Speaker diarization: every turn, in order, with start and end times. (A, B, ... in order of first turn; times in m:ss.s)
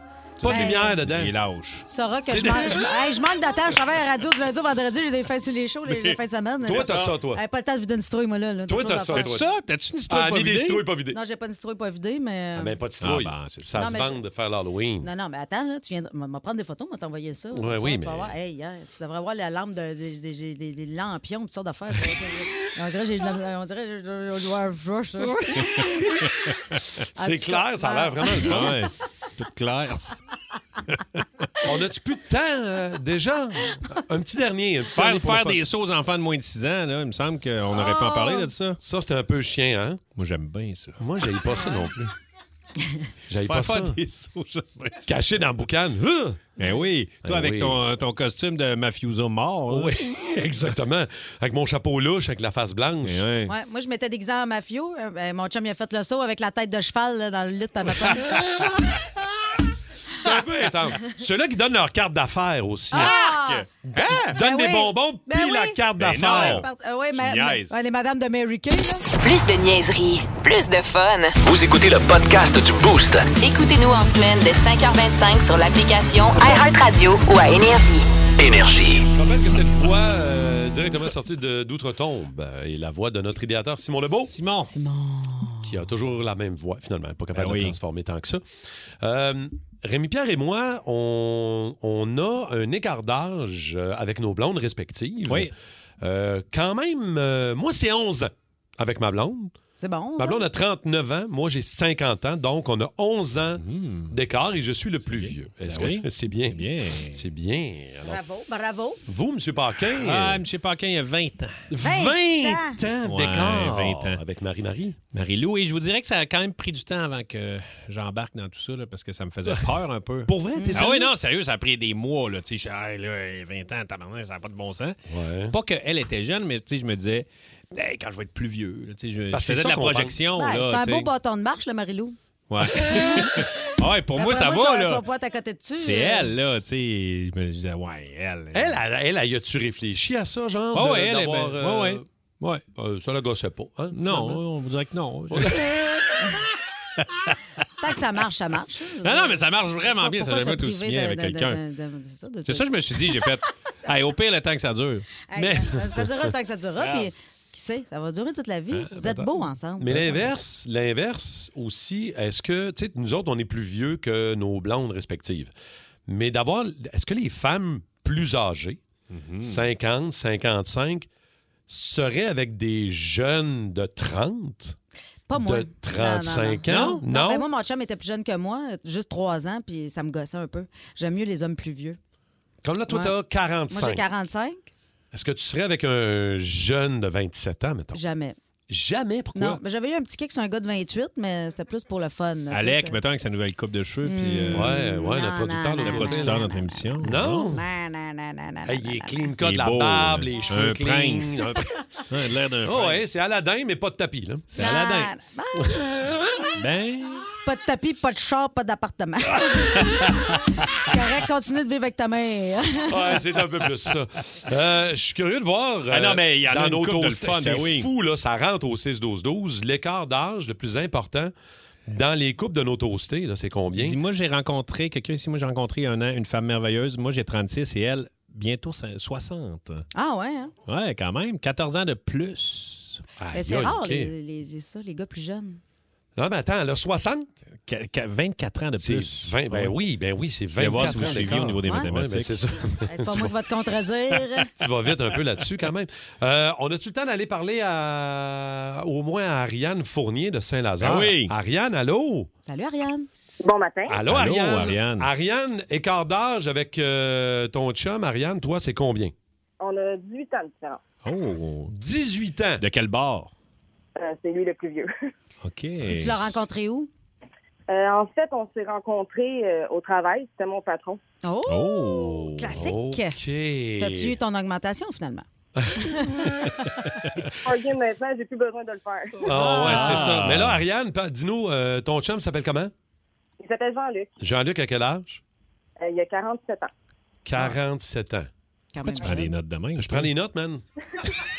0:00.4-0:01.8 A
0:00.4-0:01.3 B
0:00.4-0:01.0 C
0:01.9-0:09.4 C
0:02.2-0:02.9 B
0:05.9-0:06.2 A
0:06.6-0:07.4 B
0:08.7-0:09.5 B
0:09.1-0:10.8 A
0:10.1-0:11.2 B
0:11.1-0:12.8 C
0:12.6-0:15.1 B
0:13.0-0:13.7 A
0:13.7-0:14.2 C
0:15.0-0:26.1 C
0:17.5-0:18.3 B
0:25.5-0:26.5 A
0:27.2-0:28.7 C
0:27.2-0:28.8 B
0:28.4-0:30.2 A
0:30.9-0:31.2 A
0:31.6-0:35.6 B
0:34.9-0:38.8 A
0:37.8-0:38.5 C
0:38.8-0:40.0 B
0:40.1-0:41.0 A
0:41.0-0:42.0 B
0:43.3-0:44.0 B
0:43.4-0:45.1 A
0:45.0-0:46.5 B
0:46.6-0:50.0 A
0:47.2-0:47.8 B
0:49.7-0:53.2 B
0:53.0-0:53.5 A
0:53.5-0:58.4 C
1:00.2-1:03.2 B
1:02.9-1:03.7 C
1:02.9-1:04.4 A
1:03.9-1:06.6 B
1:04.3-1:09.0 C
1:06.0-1:07.7 A
1:09.2-1:11.4 D
1:11.4-1:13.3 E
1:13.4-1:18.1 D
1:18.4-1:19.1 E
1:19.1-1:24.3 B
1:24.2-1:24.7 A
1:24.7-1:25.7 C
1:25.6-1:28.4 B
1:27.3-1:27.8 A
1:29.0-1:39.5 B
1:39.8-1:40.4 C
1:40.2-1:48.2 B
1:43.6-1:44.1 A
1:45.1-1:47.2 A
1:48.0-1:49.0 C
1:49.0-1:50.4 B
1:49.9-1:51.7 A
1:51.7-1:55.0 B
1:51.8-1:52.8 C
1:52.9-1:54.2 A
1:55.1-2:05.0 A
1:59.4-1:59.7 B
2:00.3-2:01.1 B
2:00.6-2:00.8 C
2:05.1-2:05.5 B
2:05.5-2:11.1 A
2:09.3-2:10.2 B
2:10.4-2:12.2 C
2:12.5-2:15.0 A
2:12.7-2:16.3 C
2:15.8-2:18.8 A
2:18.5-2:22.0 B
2:20.7-2:22.6 A
2:22.7-2:24.4 B
2:23.9-2:25.8 A
2:25.3-2:26.0 B
2:27.0-2:27.3 A
2:27.8-2:34.0 C
2:29.0-2:31.6 A
2:32.4-2:35.1 A
2:35.3-2:40.3 C
2:35.3-2:36.3 B
2:36.8-2:37.1 A
2:38.7-2:39.5 A
2:39.8-2:45.5 B
2:46.1-2:48.8 B
2:49.1-2:49.7 A
2:49.4-2:51.1 B
2:51.7-2:54.8 B
2:55.3-3:02.0 C
2:55.3-2:57.5 B
2:56.7-2:57.0 A
3:02.6-3:04.0 B
3:02.9-3:03.1 C
3:03.7-3:04.7 C
3:05.1-3:08.0 B
3:07.9-3:08.4 C
3:08.7-3:09.6 B
3:09.3-3:13.0 C
3:12.5-3:14.8 A
3:14.0-3:19.2 C
3:14.5-3:16.5 B
3:15.8-3:17.5 A
3:17.0-3:17.6 B
3:18.6-3:21.6 B
3:19.4-3:23.0 A
3:22.6-3:24.5 B
3:24.5-3:25.1 A
3:24.6-3:25.8 C
3:26.6-3:27.2 A
3:27.4-3:33.1 C
3:32.9-3:41.3 B
3:35.9-3:37.9 A
3:41.9-3:44.0 B
3:43.8-3:49.8 A
3:49.9-3:50.5 C
3:50.7-3:53.0 A
3:53.2-3:54.1 B
3:53.3-3:55.6 C
3:56.2-3:57.3 B
3:57.7-3:59.7 A
3:58.8-4:03.3 B
4:00.6-4:02.4 A
4:02.8-4:04.5 C
4:04.6-4:12.3 B
4:10.8-4:11.3 A
4:12.4-4:13.1 C
4:13.4-4:14.0 F
4:13.9-4:19.1 B
4:14.0-4:15.1 A
4:19.6-4:20.8 F
4:21.0-4:21.7 A
4:21.7-4:22.6 B
4:22.6-4:23.3 A
4:24.0-4:24.9 F
4:25.4-4:26.4 A
4:25.8-4:26.9 C
4:27.7-4:31.0 F
4:31.2-4:33.2 C
4:31.5-4:32.6 A
4:32.5-4:34.2 B
4:33.8-4:35.2 C
4:35.6-4:36.6 B
4:35.8-4:36.4 C
4:37.4-4:39.2 F
4:39.2-4:42.7 B
4:39.2-4:40.2 C
4:39.4-4:40.6 A
4:43.4-4:44.1 F
4:44.2-4:45.2 B
4:45.8-4:46.7 F
4:47.2-4:48.3 B
4:48.7-4:49.3 C
4:48.8-4:50.1 A
4:49.8-4:50.6 B